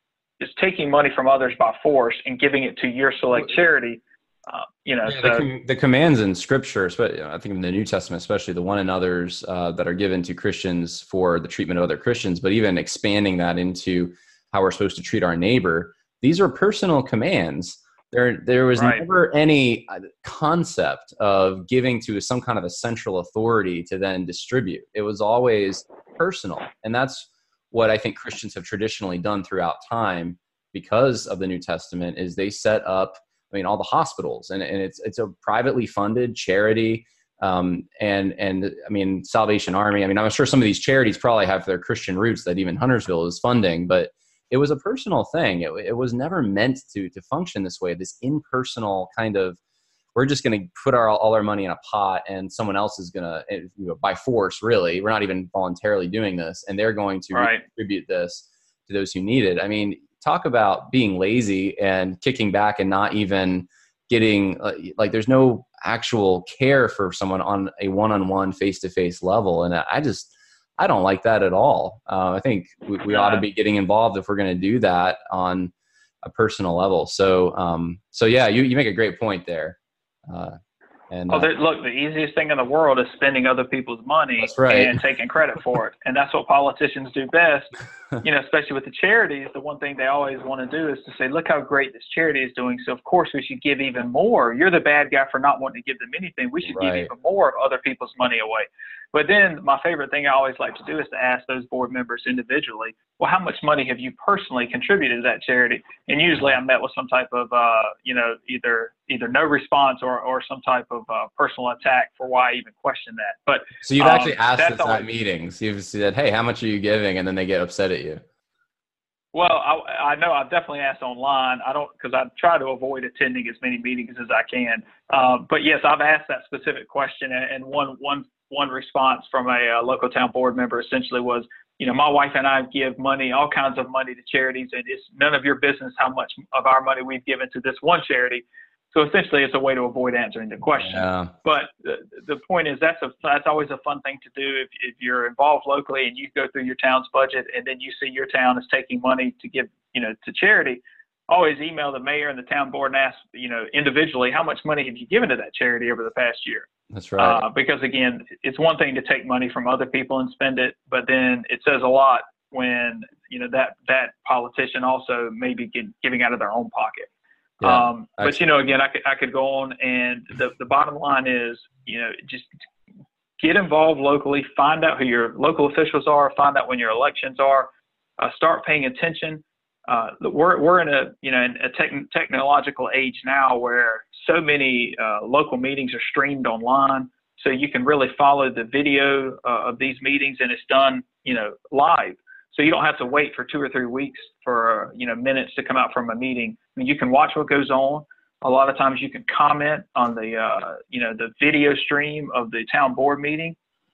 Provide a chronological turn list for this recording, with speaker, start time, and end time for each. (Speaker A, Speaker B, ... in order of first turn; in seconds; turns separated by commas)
Speaker A: 0.4-5.5, Speaker B: 5.0-49.6, Speaker A: 18.8-19.0, Speaker B: 50.1-75.7, Speaker A: 57.3-57.6, Speaker A: 73.1-73.4, Speaker B: 76.2-80.6, Speaker B: 81.1-81.5, Speaker A: 81.3-87.7, Speaker B: 84.4-85.0, Speaker A: 88.2-115.1, Speaker B: 96.6-97.1, Speaker B: 113.8-118.2, Speaker A: 119.3-167.1, Speaker B: 140.8-141.3, Speaker B: 156.9-157.4, Speaker B: 167.6-168.4, Speaker A: 167.6-172.5, Speaker A: 173.4-203.6